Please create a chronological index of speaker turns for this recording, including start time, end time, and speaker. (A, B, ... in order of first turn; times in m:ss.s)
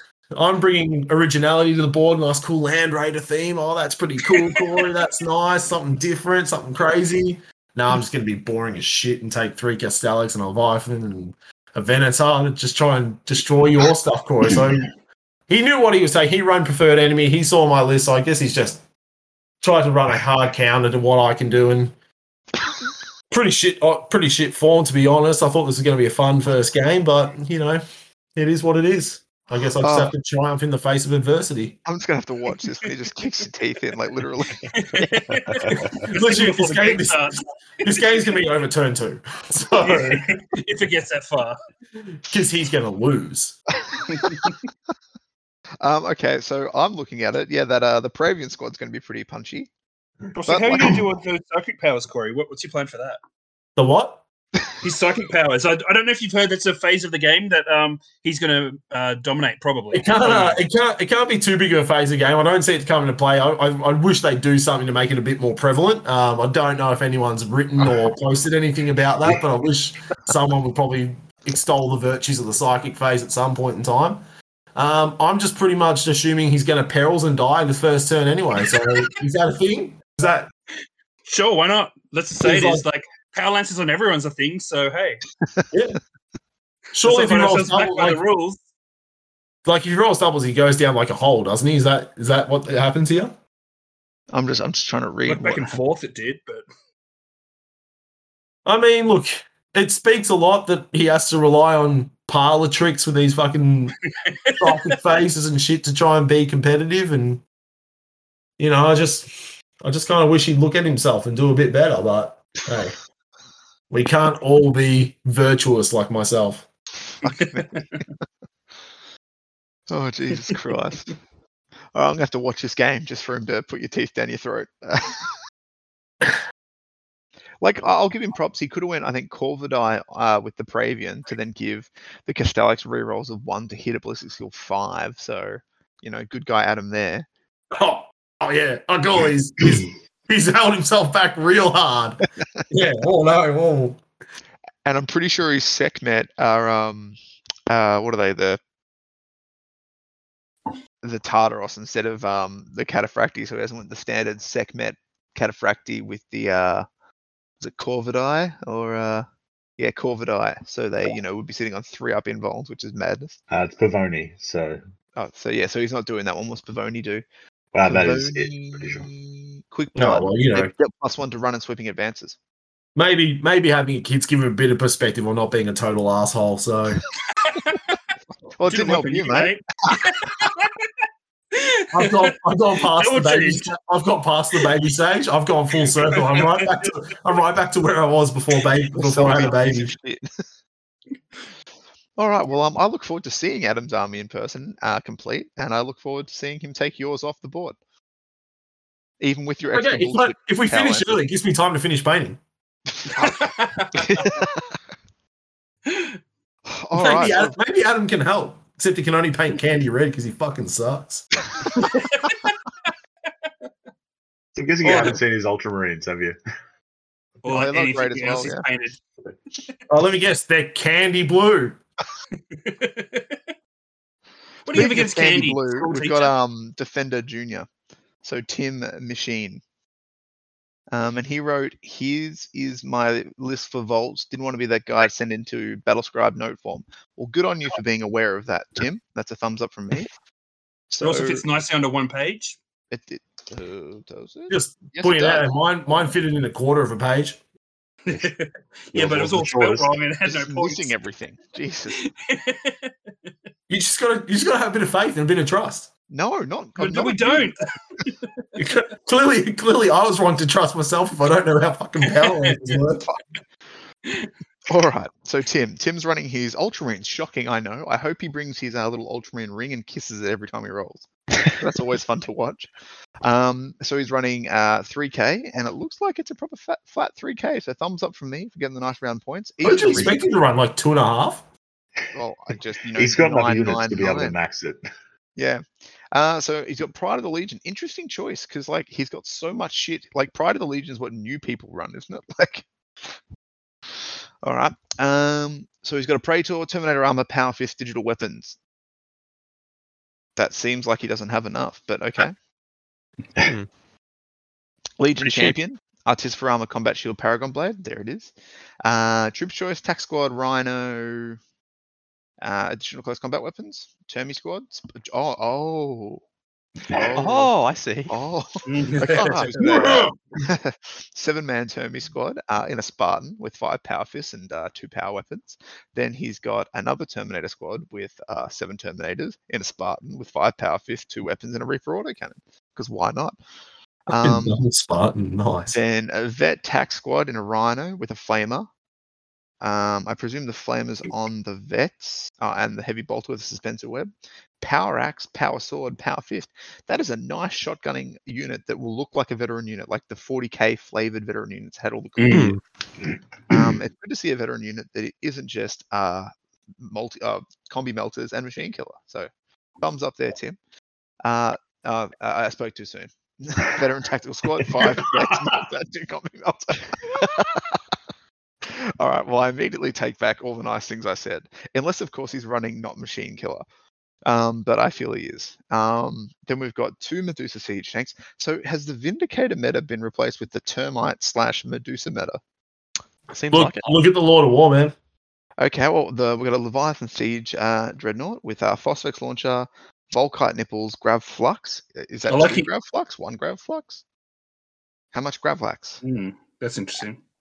0:00.4-0:14.9 A
0:15.5-0:18.8 A
0:19.6-0:21.9 A
0:23.3-0:27.8 A
0:28.4-0:31.8 A
0:29.8-0:30.1 B
0:31.8-0:35.2 B
0:34.7-0:38.1 C
0:35.5-0:36.1 D
0:35.7-0:40.3 A
0:39.8-0:41.6 C
0:42.2-0:43.6 A
0:44.0-0:44.3 B
0:44.2-0:44.5 C
0:45.8-0:49.7 B
0:50.4-0:53.2 C
0:50.5-0:51.0 B
0:53.8-0:54.2 A
0:54.8-1:00.6 C
0:59.9-1:14.2 A
1:14.8-1:20.5 A
1:21.3-1:25.2 C
1:22.4-1:22.8 A
1:25.7-1:26.0 A
1:26.9-1:28.2 A
1:27.0-1:28.6 C
1:29.7-1:33.4 A
1:34.3-1:35.8 B
1:35.3-1:36.6 C
1:38.6-1:44.0 A
1:44.3-1:45.0 C
1:44.6-1:47.4 A
1:48.6-1:53.0 A
1:53.9-1:56.7 A
1:57.2-1:58.1 B
1:57.3-1:57.8 C
1:59.9-2:01.2 B
2:02.0-2:05.4 B
2:07.6-2:17.3 B
2:17.7-2:24.0 A
2:24.8-2:27.2 B
2:27.7-2:28.6 B
2:31.0-2:36.9 B
2:37.6-2:39.3 B
2:39.8-2:43.4 B
2:43.5-2:44.8 D
2:45.2-2:47.2 B
2:47.7-2:49.1 D
2:47.9-2:52.4 B
2:50.0-2:50.7 A
2:53.0-2:57.0 A
2:57.5-2:57.8 C
2:58.6-3:00.1 B
2:58.7-3:00.8 C
3:01.5-3:03.6 C
3:01.9-3:09.9 A
3:05.8-3:06.8 C
3:09.0-3:10.4 B
3:12.2-3:17.8 B
3:19.2-3:21.2 B
3:19.7-3:22.4 A
3:23.1-3:24.7 B
3:23.2-3:24.2 C
3:25.9-3:26.2 C
3:26.7-3:27.6 B
3:26.9-3:31.3 A
3:34.6-3:36.4 D
3:34.9-3:35.2 C
3:37.4-3:39.0 C
3:37.5-3:38.6 B
3:39.9-3:41.8 A
3:42.5-3:43.5 C
3:44.7-3:46.3 C
3:44.7-3:47.7 B
3:48.2-3:49.6 B
3:50.9-4:00.1 B
4:00.9-4:01.4 B
4:01.0-4:02.6 C
4:02.9-4:05.5 B
4:04.5-4:07.4 A
4:08.1-4:10.9 C
4:08.9-4:10.0 D
4:10.3-4:12.0 B
4:12.0-4:12.9 C
4:13.7-4:15.9 A
4:16.1-4:17.5 B
4:16.8-4:18.1 C
4:18.6-4:23.1 A
4:22.1-4:22.6 C
4:22.9-4:23.2 B
4:24.7-4:32.7 B
4:33.2-4:40.3 B
4:39.6-4:41.4 A
4:42.1-4:44.4 B
4:43.0-4:44.8 D
4:45.4-4:52.6 B
4:54.4-4:58.6 B
5:00.4-5:02.4 B
5:03.4-5:03.7 E
5:05.0-5:11.4 B
5:05.2-5:05.6 E
5:12.4-5:16.2 B
5:16.9-5:17.2 D
5:16.9-5:17.5 B
5:17.2-5:18.1 E
5:18.1-5:33.4 B
5:18.7-5:19.9 C
5:34.1-5:34.6 B
5:34.1-5:35.8 A
5:35.7-5:38.7 B
5:39.6-5:52.6 B
5:52.2-5:52.6 C
5:52.3-5:52.6 E
5:53.1-5:53.7 D
5:53.5-6:00.6 B
6:01.2-6:07.8 B
6:04.8-6:05.1 D
6:08.6-6:13.6 B
6:14.3-6:22.4 B
6:23.3-6:24.0 E
6:23.5-6:25.0 A
6:25.6-6:34.0 B
6:32.3-6:32.7 C
6:35.1-6:36.0 B
6:36.0-6:37.2 C